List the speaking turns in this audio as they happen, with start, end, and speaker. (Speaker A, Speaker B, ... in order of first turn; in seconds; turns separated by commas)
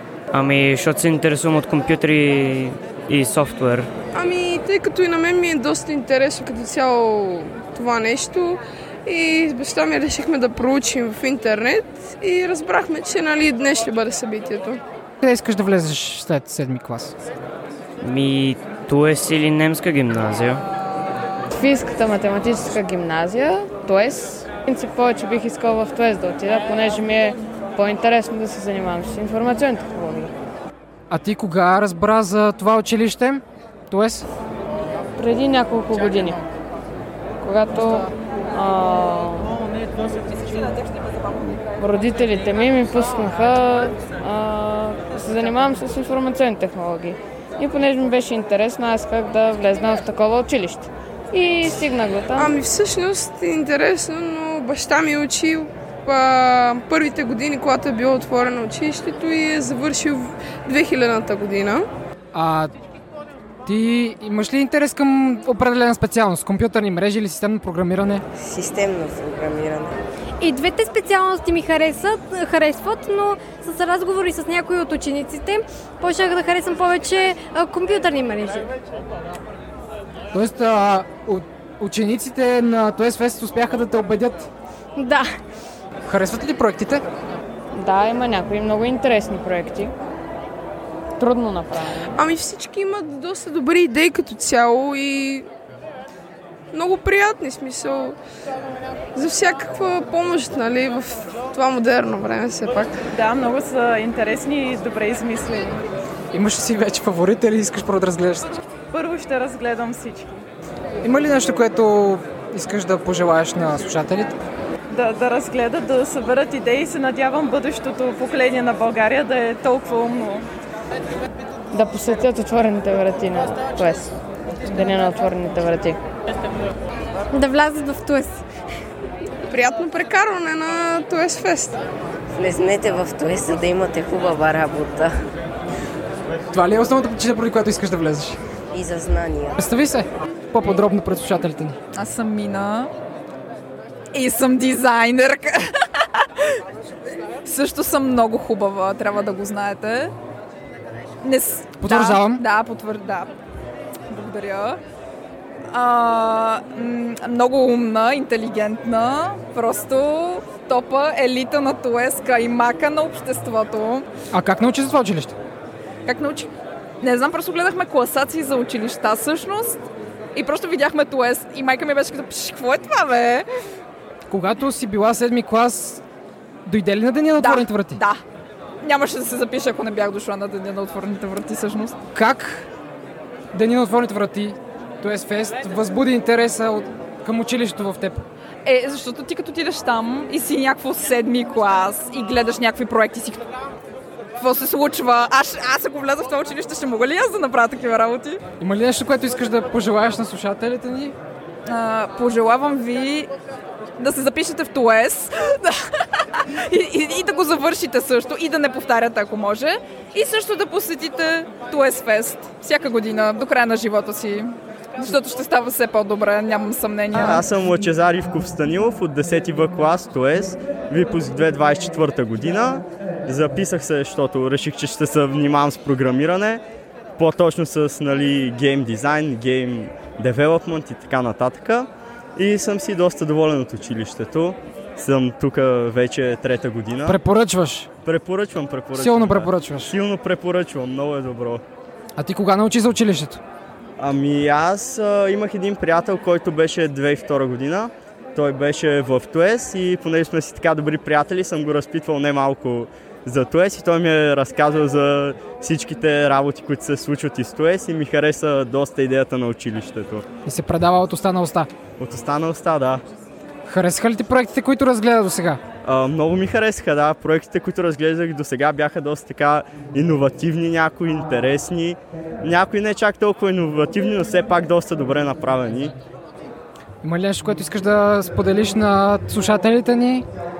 Speaker A: 0.3-3.9, Speaker B: 4.1-14.8, Speaker C: 15.2-17.1, Speaker A: 18.0-20.6, Speaker D: 21.5-30.3, Speaker C: 31.1-34.2, Speaker D: 35.2-36.4, Speaker D: 37.4-39.5, Speaker D: 41.8-52.5, Speaker B: 52.4-61.9, Speaker C: 62.3-62.7, Speaker C: 63.6-68.2, Speaker E: 68.3-69.9, Speaker F: 70.4-78.7, Speaker C: 80.3-84.5, Speaker F: 85.0-85.3, Speaker C: 86.0-87.0, Speaker D: 87.7-89.9, Speaker D: 91.2-92.0, Speaker B: 92.2-95.5, Speaker B: 96.7-98.2, Speaker B: 99.2-102.9, Speaker G: 103.1-105.8, Speaker C: 106.3-108.6, Speaker G: 108.9-110.4, Speaker C: 111.0-114.3, Speaker G: 114.9-120.5, Speaker D: 121.7-124.1, Speaker D: 124.7-126.0, Speaker F: 127.3-128.4, Speaker B: 129.5-131.8, Speaker E: 132.4-135.1, Speaker C: 136.5-138.4, Speaker E: 138.7-139.6, Speaker C: 139.6-141.8, Speaker H: 141.9-142.9, Speaker H: 144.1-146.2, Speaker H: 147.4-150.1, Speaker H: 151.2-153.3, Speaker C: 151.8-152.4, Speaker H: 154.1-154.8, Speaker H: 155.7-164.1, Speaker C: 164.3-165.3, Speaker H: 166.1-166.5, Speaker H: 167.0-169.8, Speaker H: 170.3-173.4, Speaker C: 174.3-176.0, Speaker C: 176.7-178.0, Speaker H: 177.4-178.2, Speaker H: 178.8-181.9, Speaker C: 182.1-182.7, Speaker C: 183.5-188.2, Speaker H: 188.6-193.4, Speaker H: 194.4-198.4, Speaker C: 198.6-201.1, Speaker H: 201.7-203.3, Speaker H: 204.0-217.4, Speaker I: 217.1-226.6, Speaker I: 227.2-237.2, Speaker C: 237.0-237.9, Speaker I: 238.0-241.6, Speaker C: 238.9-239.9, Speaker C: 242.2-243.4, Speaker I: 244.0-260.2, Speaker C: 260.4-261.7, Speaker I: 262.0-263.0, Speaker C: 263.6-265.6, Speaker I: 265.8-275.9, Speaker C: 277.0-280.2